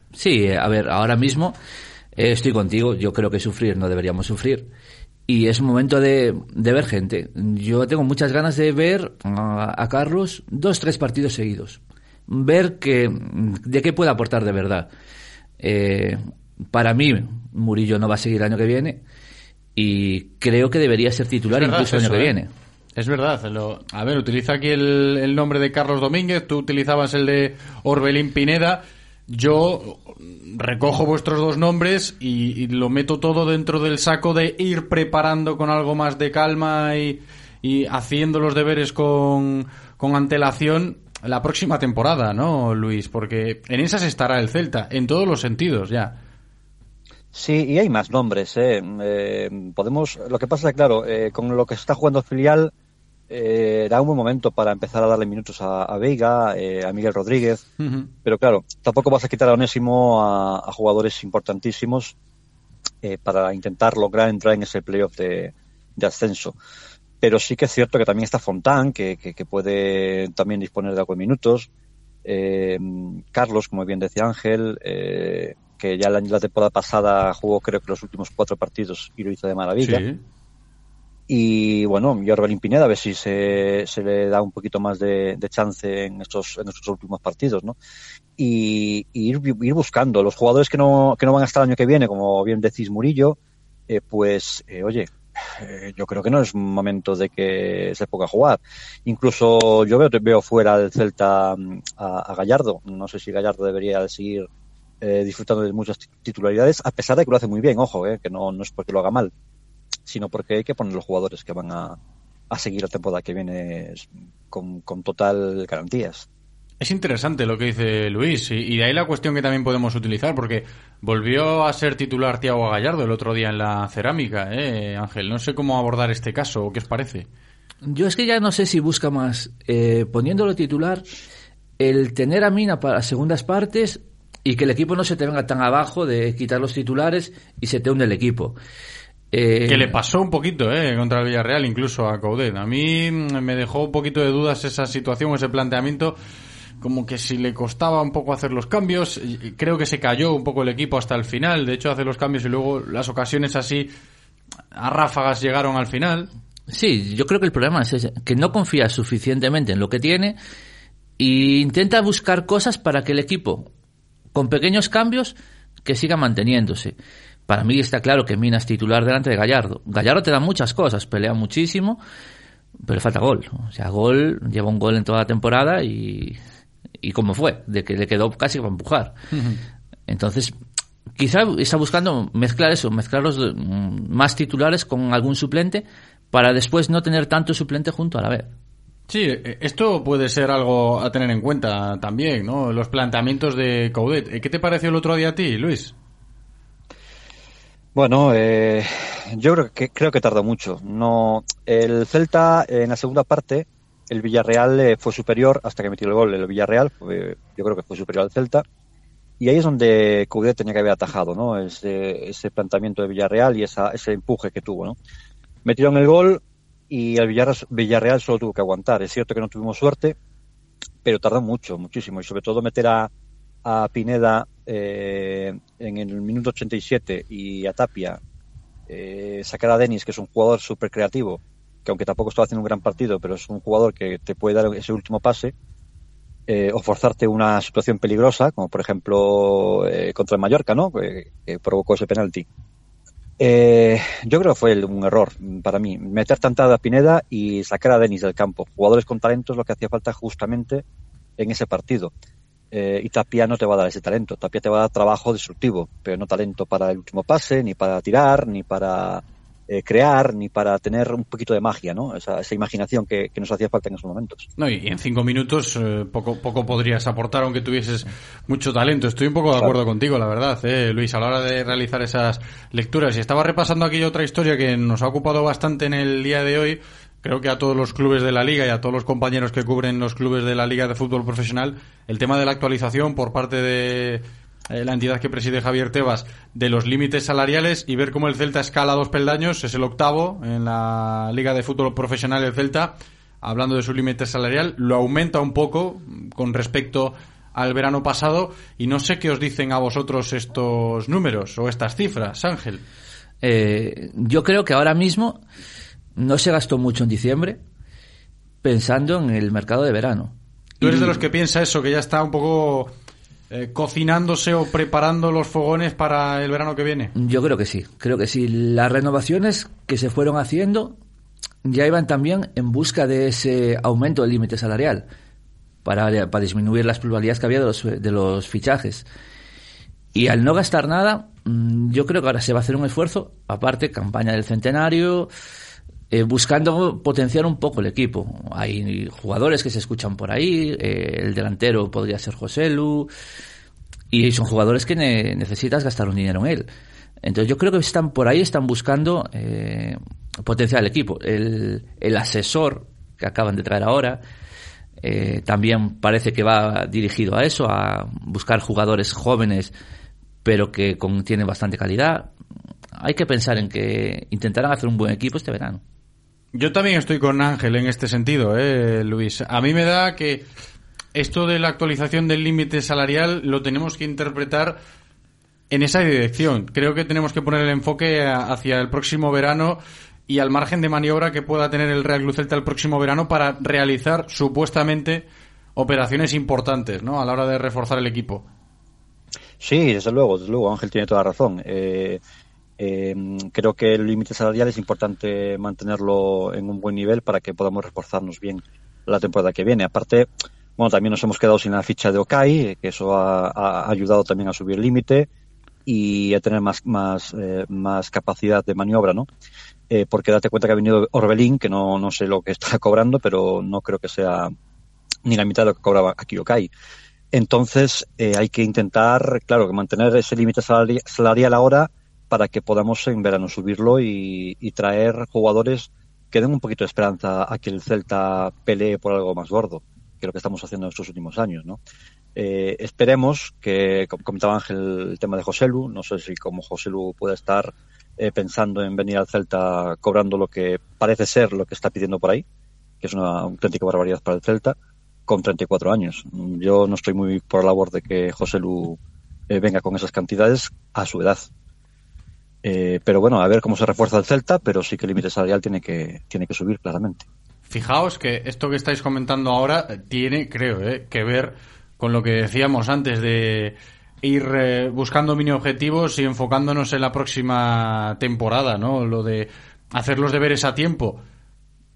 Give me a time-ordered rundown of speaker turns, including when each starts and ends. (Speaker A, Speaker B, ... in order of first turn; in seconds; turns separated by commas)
Speaker A: 0.1-1.6, Speaker A: 2.2-4.7, Speaker A: 5.3-14.9, Speaker A: 15.6-19.0, Speaker A: 19.8-22.5, Speaker B: 21.5-22.3, Speaker B: 23.0-46.2, Speaker C: 47.3-52.7, Speaker C: 53.3-57.6, Speaker B: 57.8-58.1, Speaker C: 58.2-62.1, Speaker C: 63.0-66.6, Speaker C: 67.2-71.7, Speaker C: 72.2-80.0, Speaker B: 79.8-80.2, Speaker C: 81.3-87.8, Speaker C: 88.4-93.4, Speaker C: 93.9-104.5, Speaker C: 105.0-109.3, Speaker C: 110.1-112.0, Speaker C: 112.5-116.3, Speaker B: 116.8-127.3, Speaker A: 127.8-131.1, Speaker A: 131.8-138.6, Speaker A: 139.3-140.0, Speaker B: 139.7-146.2, Speaker B: 146.8-153.9, Speaker B: 154.8-156.3, Speaker A: 156.7-160.4, Speaker A: 161.2-163.7, Speaker A: 164.3-167.0, Speaker A: 167.5-172.0, Speaker A: 172.8-176.4, Speaker A: 177.0-179.2, Speaker B: 179.3-179.6, Speaker A: 180.1-180.5, Speaker A: 181.2-188.5, Speaker B: 189.1-195.9, Speaker C: 197.9-208.7, Speaker C: 209.4-215.0, Speaker C: 215.7-220.2, Speaker C: 221.0-223.1, Speaker C: 223.7-228.2, Speaker C: 228.9-235.5, Speaker C: 236.5-242.5, Speaker C: 243.4-250.8, Speaker C: 251.4-252.1, Speaker C: 252.7-264.5, Speaker B: 264.6-302.8, Speaker A: 303.4-305.4, Speaker A: 306.2-307.6, Speaker A: 308.6-311.2, Speaker B: 310.8-312.9, Speaker B: 313.5-317.1, Speaker A: 317.2-321.0, Speaker A: 321.6-325.1, Speaker A: 325.9-329.1, Speaker A: 330.1-335.3, Speaker A: 336.1-343.1, Speaker A: 344.1-346.7, Speaker A: 347.2-354.2, Speaker A: 355.0-359.7, Speaker A: 360.4-362.3, Speaker A: 363.0-365.8, Speaker B: 366.5-370.4, Speaker B: 371.1-374.8, Speaker B: 375.7-388.5, Speaker C: 389.6-392.2, Speaker C: 392.8-405.3, Speaker C: 405.9-409.3, Speaker C: 409.9-414.5, Speaker C: 415.3-416.7, Speaker C: 417.3-431.8, Speaker C: 432.4-442.4, Speaker C: 443.0-444.8, Speaker C: 445.3-449.0, Speaker C: 449.5-451.5, Speaker C: 452.6-457.2, Speaker B: 457.7-471.2